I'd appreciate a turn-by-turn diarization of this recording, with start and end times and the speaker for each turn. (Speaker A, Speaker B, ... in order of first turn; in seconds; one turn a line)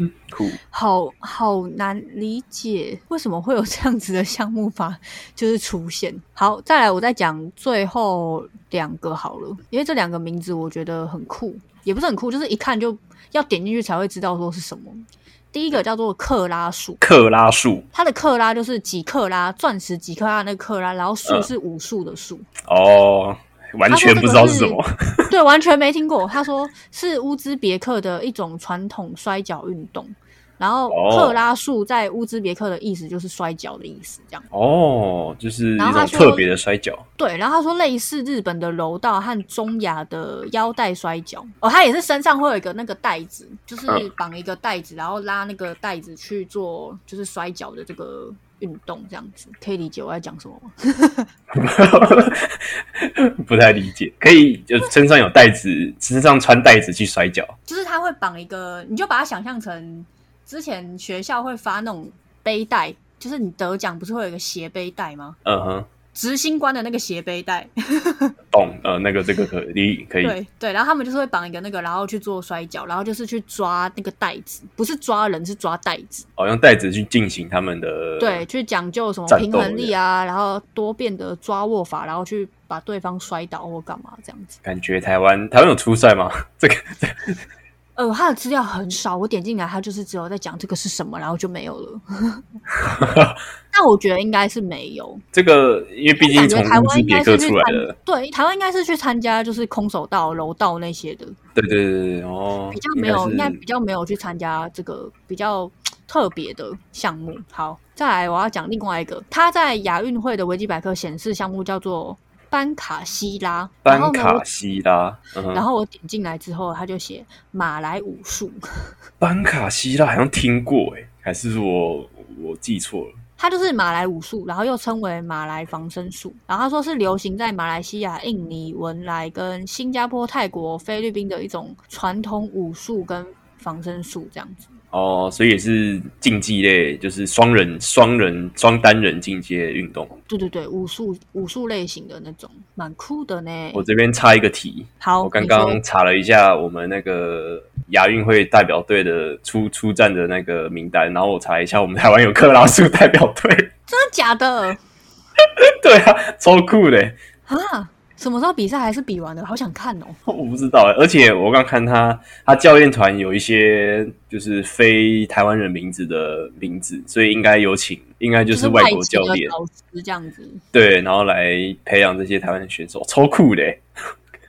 Speaker A: 0.3-0.6
Speaker B: 0.7-17.0
Speaker A: 17.0-17.9
Speaker B: 17.9-22.5
Speaker A: 22.6-25.3
Speaker B: 23.9-34.4
Speaker A: 30.9-31.4
Speaker A: 34.5-37.0
Speaker B: 35.8-36.5
Speaker B: 37.2-51.3
Speaker A: 51.5-57.5
Speaker B: 57.7-65.4
Speaker A: 65.4-65.8
Speaker B: 66.1-68.3
Speaker A: 68.5-70.3
Speaker B: 70.2-76.2
Speaker A: 76.4-78.4
Speaker B: 78.2-84.6
Speaker A: 79.3-79.9
Speaker A: 84.6-87.4
Speaker B: 88.0-92.4
Speaker A: 92.8-93.4
Speaker B: 93.7-95.2
Speaker A: 95.3-97.9
Speaker B: 96.2-101.3
Speaker A: 101.5-103.6
Speaker B: 102.7-114.5
Speaker A: 113.8-115.6
Speaker B: 115.5-118.9
Speaker A: 119.2-123.2
Speaker B: 123.4-134.7
Speaker A: 134.9-140.1
Speaker B: 140.3-143.8
Speaker A: 143.7-153.7
Speaker B: 145.0-145.8
Speaker B: 153.9-154.8
Speaker A: 155.6-157.2
Speaker B: 157.5-160.2
Speaker A: 160.2-169.5
Speaker B: 168.5-170.6
Speaker A: 170.7-173.8